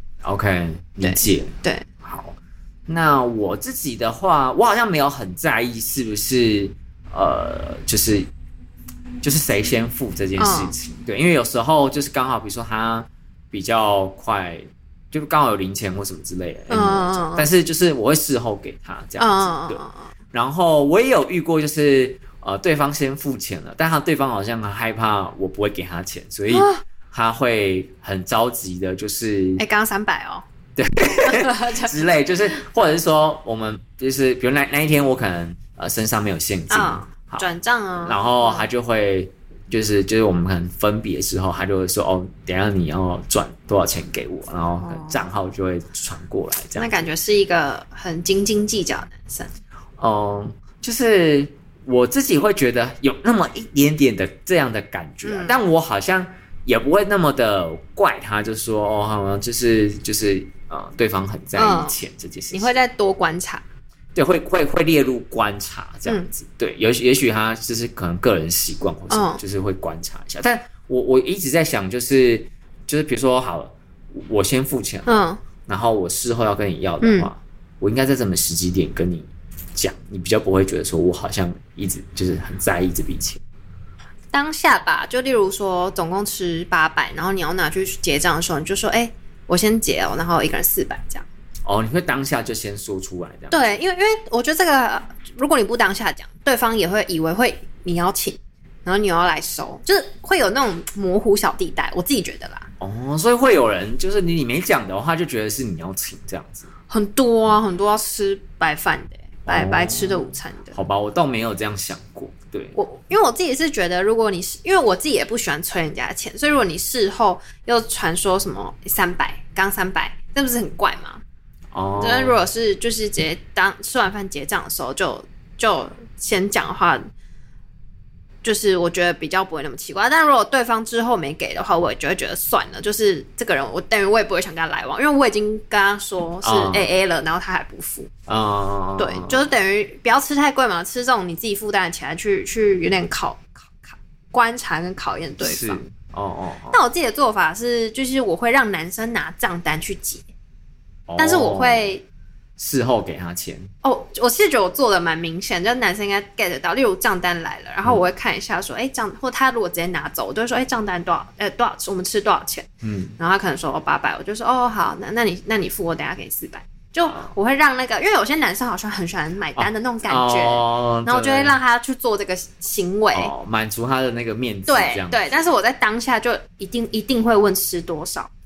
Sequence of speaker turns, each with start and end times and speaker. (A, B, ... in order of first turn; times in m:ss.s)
0:00.2-0:08.3 A
0:01.0-0:01.9 B
0:09.2-0:19.8 A
0:10.4-0:10.8 B
0:16.7-0:17.5 B
0:19.2-0:20.1 B
0:20.3-0:29.6 A
0:26.5-0:26.8 B
0:29.6-0:30.4 B
0:30.8-0:37.5 A
0:31.2-0:32.0 B
0:36.7-0:38.7 B
0:38.0-0:47.0 A
0:44.8-0:45.3 B
0:46.8-0:49.5 B
0:50.0-1:02.7 A
0:55.2-0:55.6 B
1:01.6-1:02.0 B
1:02.5-1:03.6 B
1:04.2-1:15.1 A
1:06.1-1:06.3 B
1:09.1-1:09.4 B
1:15.1-1:15.4 B
1:15.7-1:23.4 A
1:17.0-1:17.3 B
1:24.3-1:31.3 B
1:31.6-1:33.8 A
1:33.5-1:42.7 B
1:42.8-1:46.7 A
1:46.9-1:50.8 B
1:49.5-1:52.8 A
1:52.8-2:01.2 B
2:01.7-2:02.4 A
2:02.0-2:07.1 B
2:08.4-2:18.1 B
2:16.4-2:16.9 A
2:18.3-2:19.4 A
2:19.0-2:25.8 B
2:25.4-2:26.8 A
2:26.7-2:30.2 B
2:31.1-2:31.9 A
2:31.2-2:32.0 B
2:32.6-2:33.7 A
2:33.8-2:53.3 B
2:42.8-2:43.2 A
2:49.6-2:51.6 A
2:53.1-2:55.5 A
2:54.7-2:58.3 B